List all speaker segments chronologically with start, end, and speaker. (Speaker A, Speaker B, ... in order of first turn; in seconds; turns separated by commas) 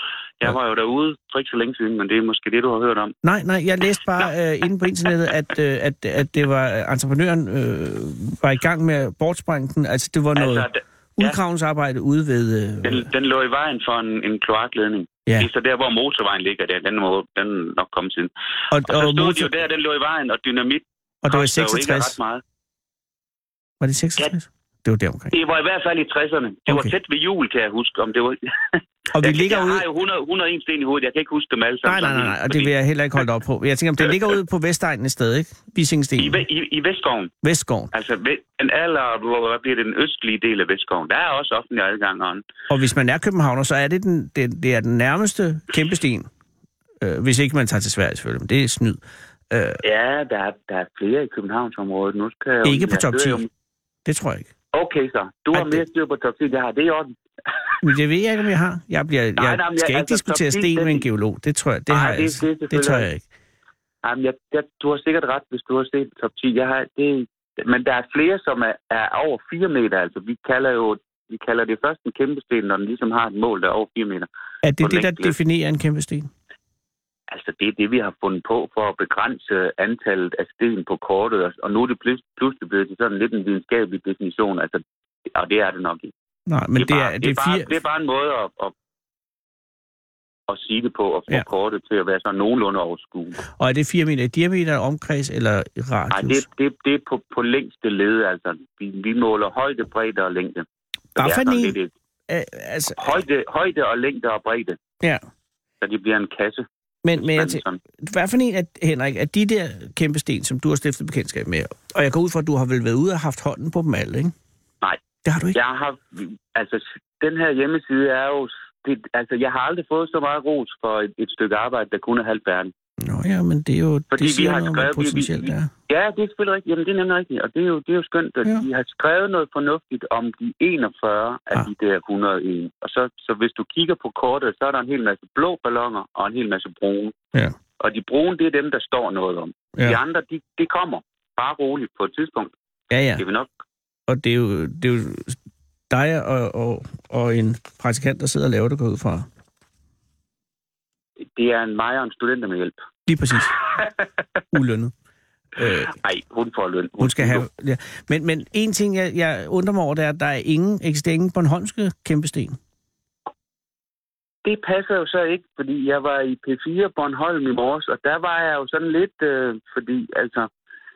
Speaker A: 0.4-3.1, Speaker B: 3.2-13.1, Speaker A: 10.3-11.4, Speaker A: 12.8-18.3, Speaker B: 18.7-19.5, Speaker A: 18.9-22.4, Speaker B: 21.2-22.1, Speaker B: 23.8-25.3, Speaker A: 25.3-32.7, Speaker B: 29.1-29.9, Speaker B: 31.9-36.4, Speaker A: 36.2-37.3, Speaker B: 37.4-37.9, Speaker A: 37.9-42.4, Speaker B: 42.7-46.3, Speaker B: 47.0-49.0, Speaker B: 49.5-49.8, Speaker A: 49.8-53.5, Speaker B: 52.6-53.4, Speaker B: 54.1-54.5, Speaker A: 54.7-57.1, Speaker B: 55.5-55.8, Speaker B: 57.8-63.2, Speaker A: 59.4-61.0, Speaker A: 61.9-63.1, Speaker A: 64.0-74.3, Speaker B: 74.6-76.3, Speaker A: 74.8-75.4, Speaker A: 77.3-84.8, Speaker A: 85.3-86.1, Speaker B: 86.5-87.7, Speaker A: 86.8-88.7, Speaker A: 90.5-93.4, Speaker B: 93.5-96.5, Speaker A: 96.1-100.7, Speaker B: 101.2-101.8, Speaker A: 101.2-101.9, Speaker B: 102.3-103.2, Speaker A: 103.0-104.8, Speaker A: 105.8-107.8, Speaker B: 107.0-114.3, Speaker B: 115.3-115.6, Speaker A: 115.5-122.7, Speaker B: 123.0-125.7, Speaker A: 124.1-137.1, Speaker A: 137.8-142.5, Speaker B: 142.9-143.2, Speaker A: 143.2-143.5, Speaker B: 144.1-145.4, Speaker B: 145.9-149.3, Speaker A: 151.3-152.8, Speaker B: 153.1-153.6, Speaker B: 154.5-154.9, Speaker B: 155.6-155.9, Speaker A: 155.6-157.5, Speaker B: 157.0-162.6, Speaker A: 164.4-170.5